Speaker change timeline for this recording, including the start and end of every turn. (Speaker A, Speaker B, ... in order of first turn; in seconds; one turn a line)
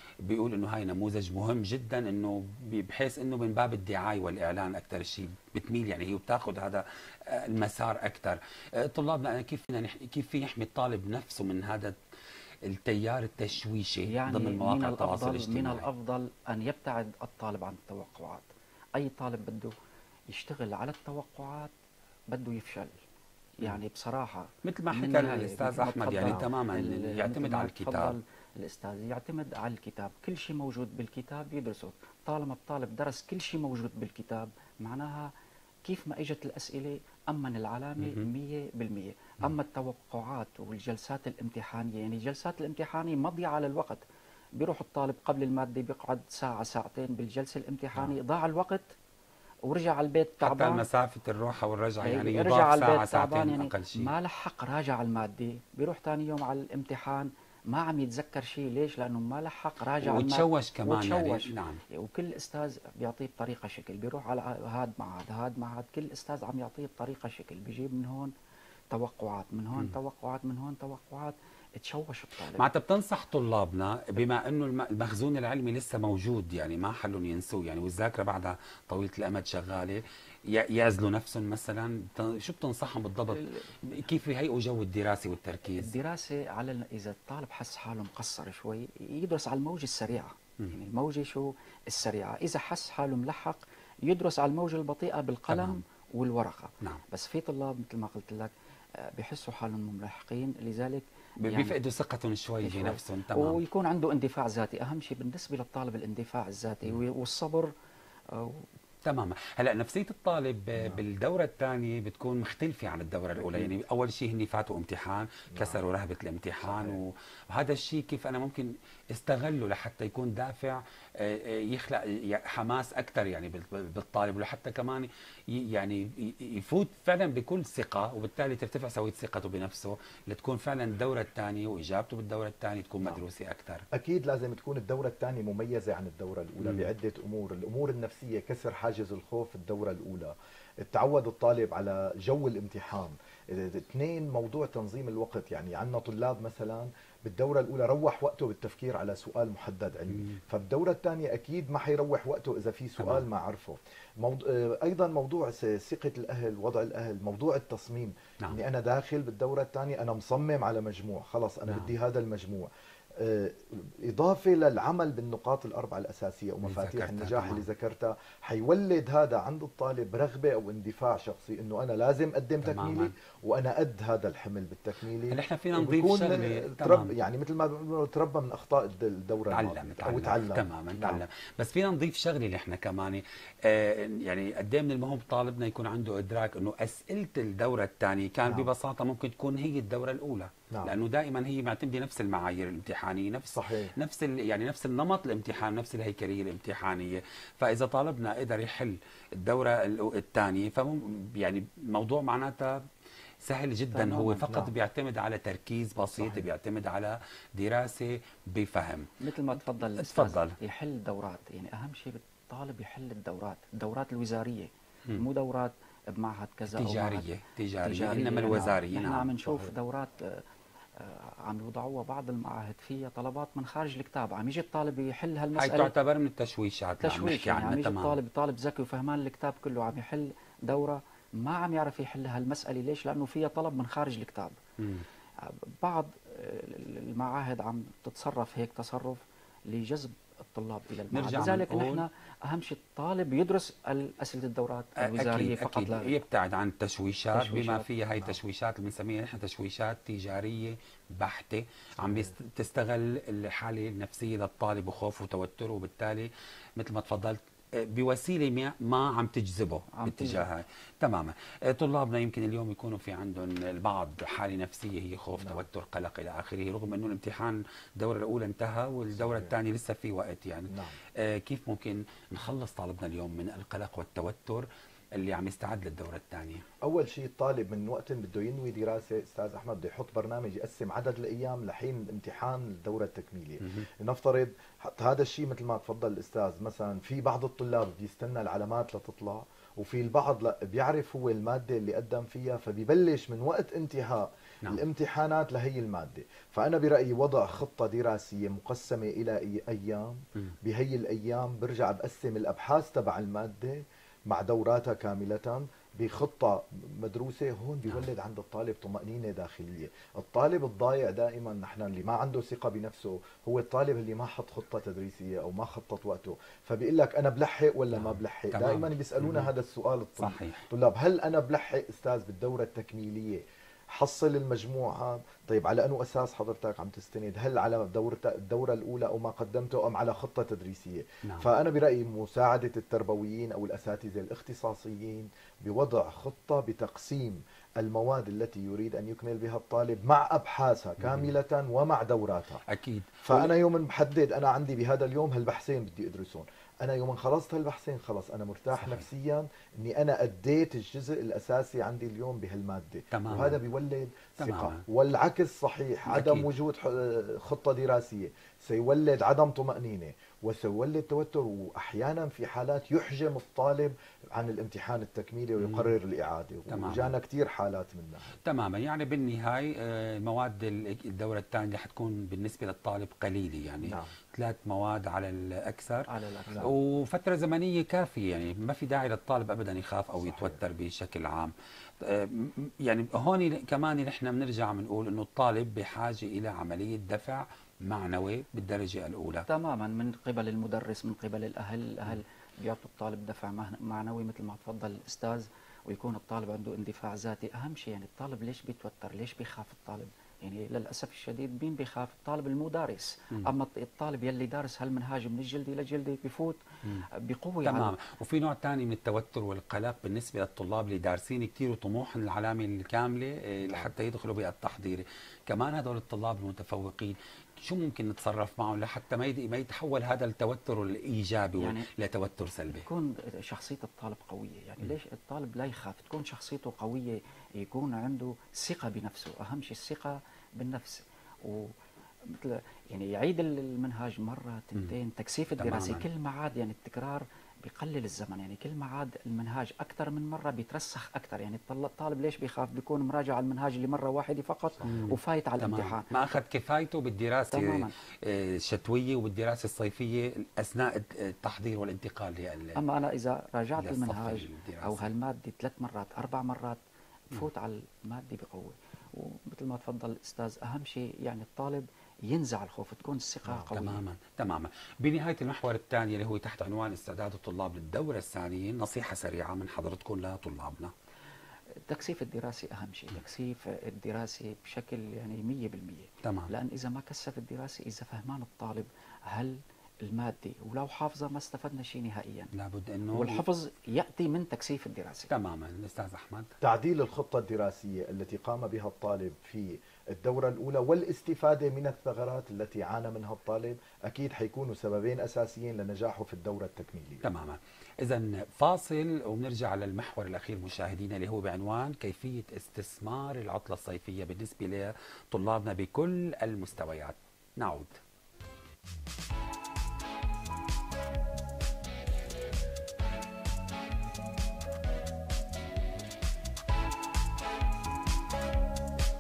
Speaker A: 0.2-12.0
Speaker A: 12.7-15.9
Speaker B: 14.1-19.8
Speaker B: 20.3-21.7
Speaker B: 22.3-22.9
Speaker B: 23.6-35.3
Speaker A: 24.6-28.2
Speaker B: 35.9-44.0
Speaker A: 38.0-38.3
Speaker B: 44.6-48.9
Speaker B: 49.7-50.8
Speaker A: 50.4-54.1
Speaker B: 52.0-68.3
Speaker A: 60.0-61.8
Speaker B: 68.9-72.7
Speaker A: 72.6-85.9
Speaker B: 83.3-83.7
Speaker B: 85.7-101.8
Speaker A: 95.5-95.8
Speaker A: 101.4-103.6
Speaker B: 102.6-107.7
Speaker B: 108.3-108.7
Speaker A: 109.0-133.8
Speaker C: 113.4-113.8
Speaker C: 115.5-115.8
Speaker C: 116.6-117.0
Speaker C: 133.9-181.2
Speaker A: 153.0-153.2
Speaker A: 166.7-167.7
Speaker A: 172.6-173.1
Speaker A: 175.3-177.1
Speaker A: 179.5-202.8
Speaker C: 188.5-188.7
Speaker C: 190.7-191.0
Speaker C: 193.5-193.9
Speaker A: 203.4-209.1
Speaker B: 203.9-204.7
Speaker C: 206.2-206.5
Speaker B: 209.2-217.3
Speaker A: 209.8-210.6
Speaker A: 216.7-219.3
Speaker B: 217.8-220.5
Speaker C: 219.4-219.7
Speaker B: 221.0-225.9
Speaker A: 225.6-228.2
Speaker B: 227.0-234.6
Speaker A: 234.8-235.1
Speaker B: 235.4-246.2
Speaker A: 241.1-242.0
Speaker A: 245.0-276.6
Speaker B: 247.3-247.9
Speaker C: 252.0-252.3
Speaker B: 259.9-260.5
Speaker C: 265.4-265.6
Speaker C: 269.1-269.5
Speaker C: 270.7-271.0
Speaker C: 276.8-323.4
Speaker A: 317.9-319.5
Speaker A: 320.2-320.7
Speaker C: 323.9-342.6
Speaker A: 341.0-341.3
Speaker A: 342.7-343.5
Speaker C: 343.2-368.4
Speaker A: 353.1-353.6
Speaker A: 354.4-354.8
Speaker A: 356.1-356.5
Speaker A: 365.6-365.9
Speaker A: 366.7-367.1
Speaker A: 368.4-376.1
Speaker C: 373.8-374.1
Speaker B: 376.1-376.7
Speaker A: 376.6-389.5
Speaker C: 380.2-380.6
Speaker B: 389.5-406.6
Speaker B: 407.1-407.9
Speaker A: 407.6-422.9
Speaker C: 413.7-413.9
Speaker B: 421.6-421.9
Speaker B: 422.7-431.8
Speaker B: 432.3-446.1
Speaker A: 435.6-436.1
Speaker A: 444.8-452.8
Speaker B: 447.5-447.9
Speaker B: 452.8-464.0
Speaker A: 453.8-455.1
Speaker A: 463.6-470.9
Speaker B: 471.9-482.5
Speaker A: 476.2-476.5
Speaker A: 482.5-483.4
Speaker B: 483.1-485.3
Speaker A: 485.3-486.5
Speaker C: 486.6-497.2
Speaker A: 497.2-508.0